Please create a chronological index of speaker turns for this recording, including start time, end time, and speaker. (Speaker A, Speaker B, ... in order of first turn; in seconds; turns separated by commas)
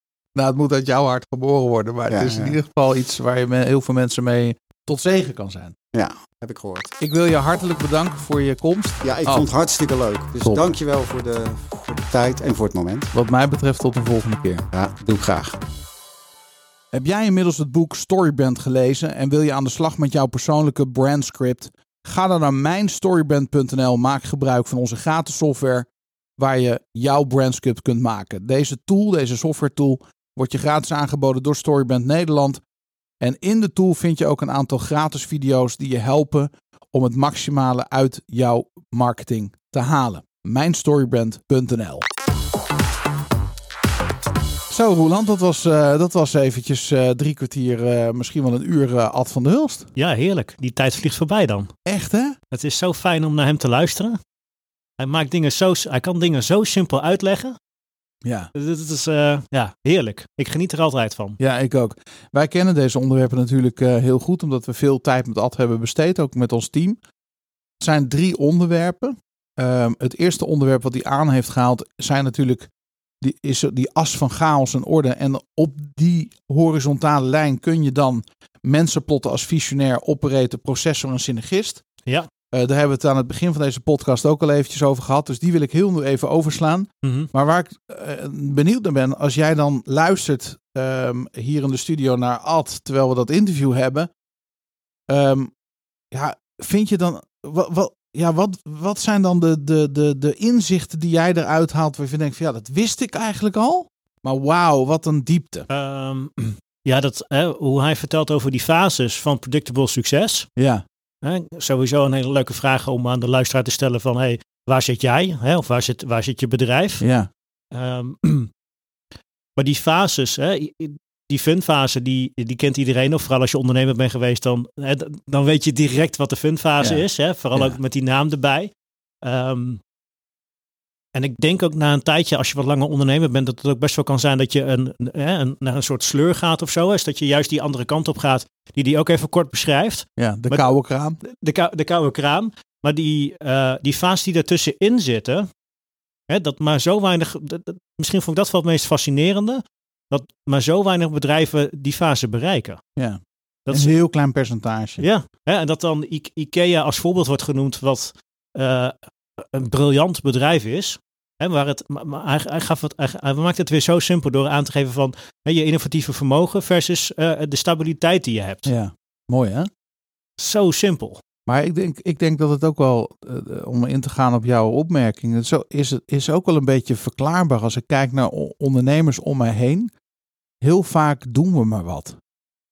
Speaker A: 0.3-5.8, Speaker B: 2.1-2.6, Speaker B: 5.9-6.9, Speaker A: 7.0-9.5, Speaker B: 9.0-13.1, Speaker A: 13.1-14.7, Speaker B: 14.7-15.6, Speaker A: 16.9-25.9, Speaker A: 26.4-32.6, Speaker A: 33.2-42.0, Speaker A: 44.7-49.9, Speaker C: 50.0-51.7, Speaker A: 51.9-52.4, Speaker C: 52.5-54.2, Speaker C: 55.0-57.6, Speaker C: 58.6-61.4, Speaker A: 61.4-67.0, Speaker A: 67.8-72.7, Speaker A: 73.2-81.8, Speaker A: 82.5-94.1, Speaker C: 87.0-87.3, Speaker A: 95.1-95.5, Speaker A: 96.1-105.7, Speaker C: 105.7-110.5, Speaker A: 110.6-110.8, Speaker C: 111.2-117.0, Speaker A: 117.0-117.3, Speaker C: 117.7-118.5, Speaker C: 119.6-128.7, Speaker C: 129.2-129.8, Speaker C: 131.2-145.5, Speaker A: 140.2-141.2, Speaker C: 146.3-152.8, Speaker C: 153.7-154.0, Speaker A: 153.7-155.1, Speaker C: 155.0-168.7, Speaker A: 168.7-169.7, Speaker C: 170.4-171.2, Speaker A: 171.5-179.9, Speaker A: 180.6-182.2